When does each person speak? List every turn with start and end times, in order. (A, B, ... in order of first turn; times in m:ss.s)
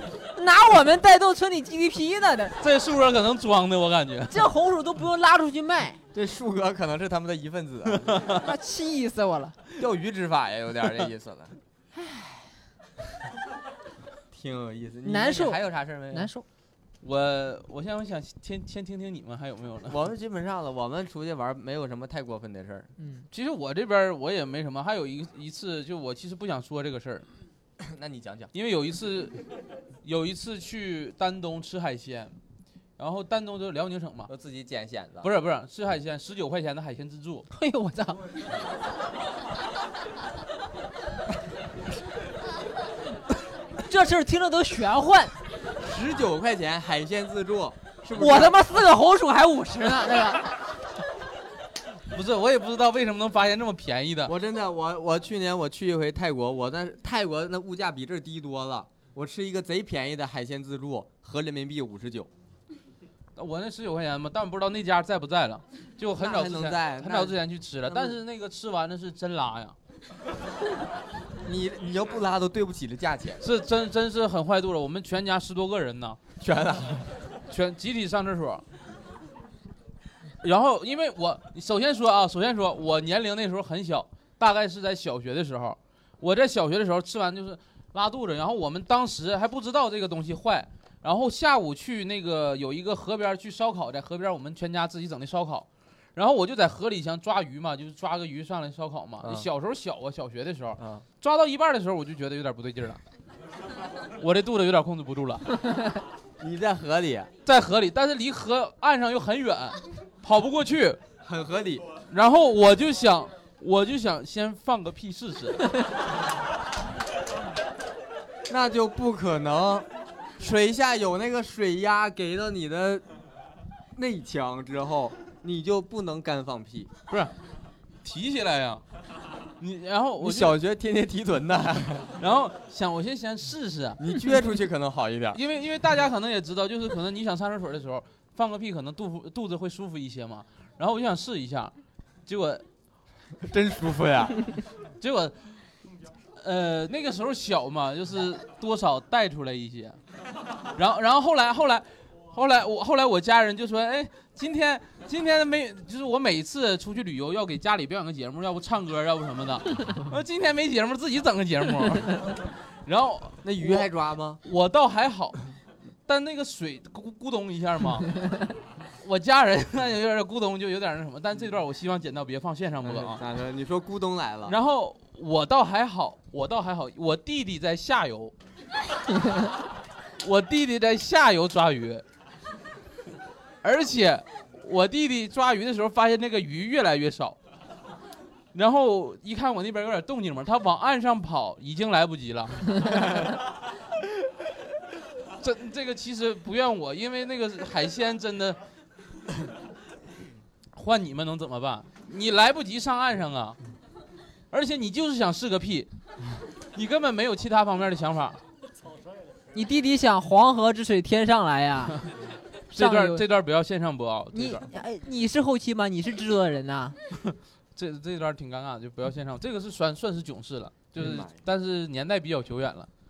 0:00.3-0:02.6 A
0:02.6-0:04.5 B
0:04.3-0:06.0 A
0:06.1-0:08.2 C
0:07.9-0:08.3 B
0:08.4-0:09.6 A
0:09.8-0:11.6 C
0:11.9-0:12.6 A
0:14.3-0:16.3 C
0:15.0-0:15.6 A
0:16.1-0:16.4 A
0:17.0-0:20.0 B
0:19.8-0:22.9 C
0:23.0-0:23.2 A
0:23.3-0:27.2 B
0:27.8-0:28.5 C
0:28.5-0:29.4 B
0:30.0-0:32.4 B
0:33.0-0:34.3 B
0:34.3-0:35.3 C
0:35.2-0:37.5 B
0:37.5-0:38.2 A
0:43.8-0:45.3 A
0:45.8-0:48.6 C
0:48.1-0:50.5 A
0:52.1-0:54.3 B
0:54.2-1:02.3 C
1:03.4-1:09.8 B
1:06.2-1:08.2 C
1:11.4-1:13.4 C
1:13.4-1:16.2 B
1:16.4-1:17.1 C
1:17.5-1:18.6 B
1:20.4-1:43.0 B
1:39.2-1:39.5 C
1:40.8-1:41.0 C
1:44.2-1:45.6 B
1:46.4-1:47.3 C
1:47.4-1:51.0 B
1:51.2-1:51.9 C
1:52.1-1:55.7 B
1:58.5-1:59.9 C
2:00.4-2:03.0 C
2:03.9-2:06.9 C
2:08.0-2:08.8 B
2:09.6-2:10.6 B
2:10.2-2:12.2 C
2:12.2-2:14.0 B
2:14.0-2:15.4 C
2:15.3-2:21.7 B
2:22.2-2:22.6 B
2:23.4-2:24.4 C
2:25.0-2:25.6 B
2:26.4-2:30.0 B
2:30.7-2:43.8 B
2:43.4-2:44.4 C
2:44.4-2:45.4 B
2:46.1-2:48.4 B
2:49.0-2:53.2 B
2:52.8-2:54.6 C
2:54.5-2:58.3 B
3:00.2-3:02.0 B
3:03.6-3:07.4 B
3:08.5-3:13.2 B
3:15.4-3:18.6 B
3:20.7-3:23.6 B
3:24.5-3:25.9 B
3:26.7-3:28.4 B
3:29.5-3:32.0 A
3:32.7-3:34.6 B
3:32.7-3:33.2 A
3:34.3-3:37.0 A
3:37.3-3:42.9 B
3:41.0-3:41.4 C